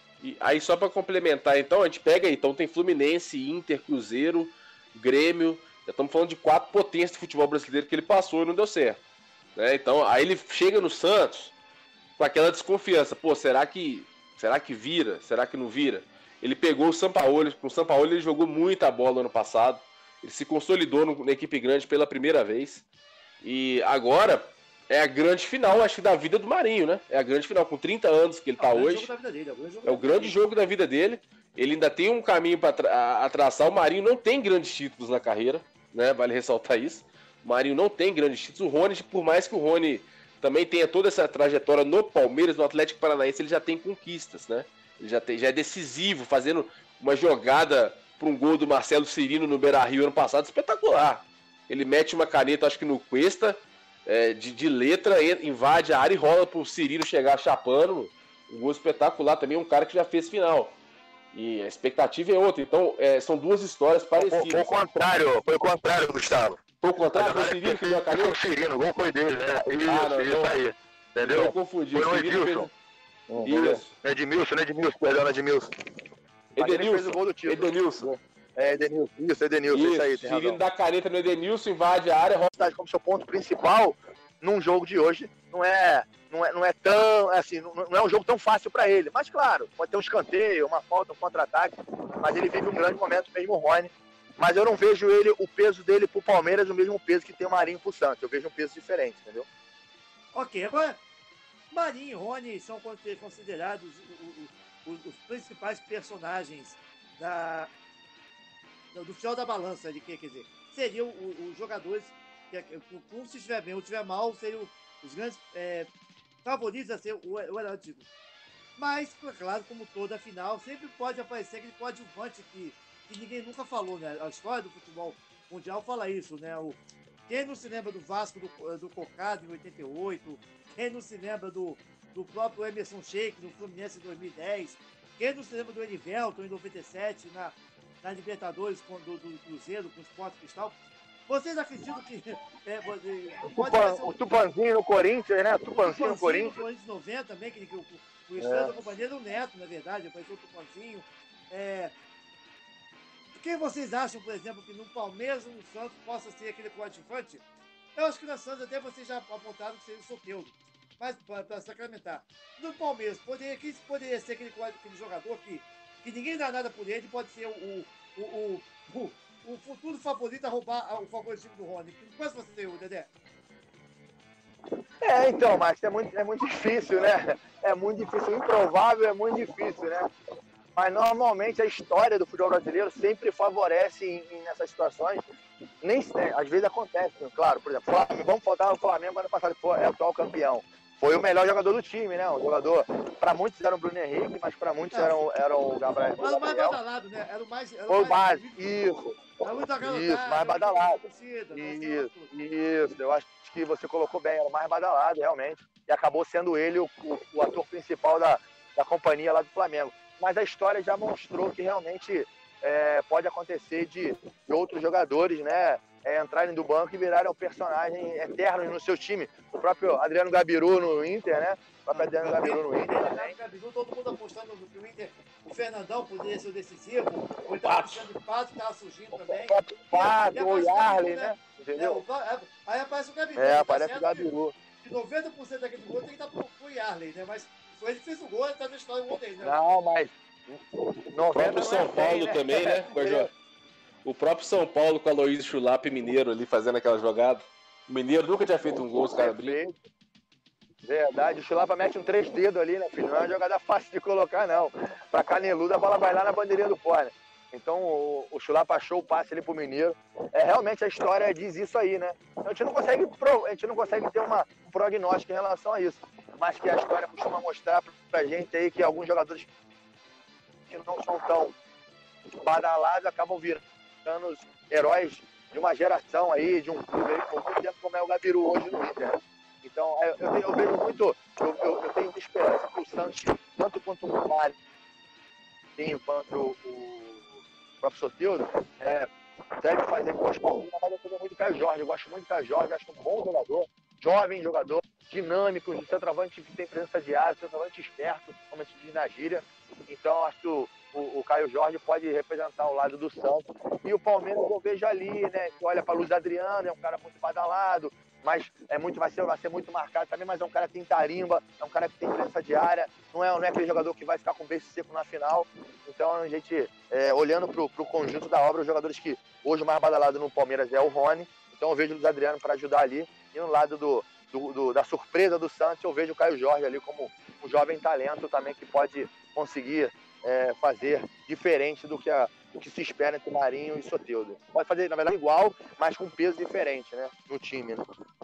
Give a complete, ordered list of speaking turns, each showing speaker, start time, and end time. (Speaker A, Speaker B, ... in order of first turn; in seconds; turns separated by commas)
Speaker A: 0.2-9.0, Speaker A: 9.6-11.5, Speaker A: 12.2-22.9, Speaker A: 23.4-29.1, Speaker B: 28.6-30.4, Speaker A: 29.9-60.8, Speaker A: 61.3-64.7, Speaker C: 64.2-66.6, Speaker A: 66.8-68.4, Speaker C: 67.1-72.7, Speaker A: 69.9-70.6, Speaker A: 71.2-72.7, Speaker C: 73.3-75.7, Speaker A: 73.4-74.0, Speaker A: 76.6-78.1, Speaker C: 76.6-80.6, Speaker A: 79.7-82.5, Speaker C: 82.5-99.5, Speaker B: 100.3-101.0, Speaker B: 101.7-107.7, Speaker B: 108.9-115.9, Speaker B: 116.4-118.1, Speaker B: 118.8-140.8, Speaker B: 141.3-144.2, Speaker C: 143.4-146.6, Speaker B: 145.8-151.9, Speaker C: 148.4-148.7, Speaker B: 153.4-157.4, Speaker B: 158.0-173.1, Speaker C: 175.0-180.1, Speaker C: 180.8-185.2, Speaker C: 185.8-196.8, Speaker B: 194.9-195.2, Speaker B: 196.2-198.7, Speaker C: 197.9-199.2, Speaker B: 199.4-202.3, Speaker C: 199.8-201.0, Speaker C: 201.5-223.3, Speaker B: 221.9-234.3, Speaker A: 227.6-227.9, Speaker C: 229.1-232.0, Speaker C: 233.4-234.6, Speaker B: 234.8-239.8, Speaker C: 239.4-243.3, Speaker A: 241.4-243.3, Speaker A: 244.1-249.6, Speaker C: 249.2-249.8, Speaker C: 250.8-269.5, Speaker C: 270.7-271.5, Speaker C: 272.3-284.6, Speaker C: 285.8-337.9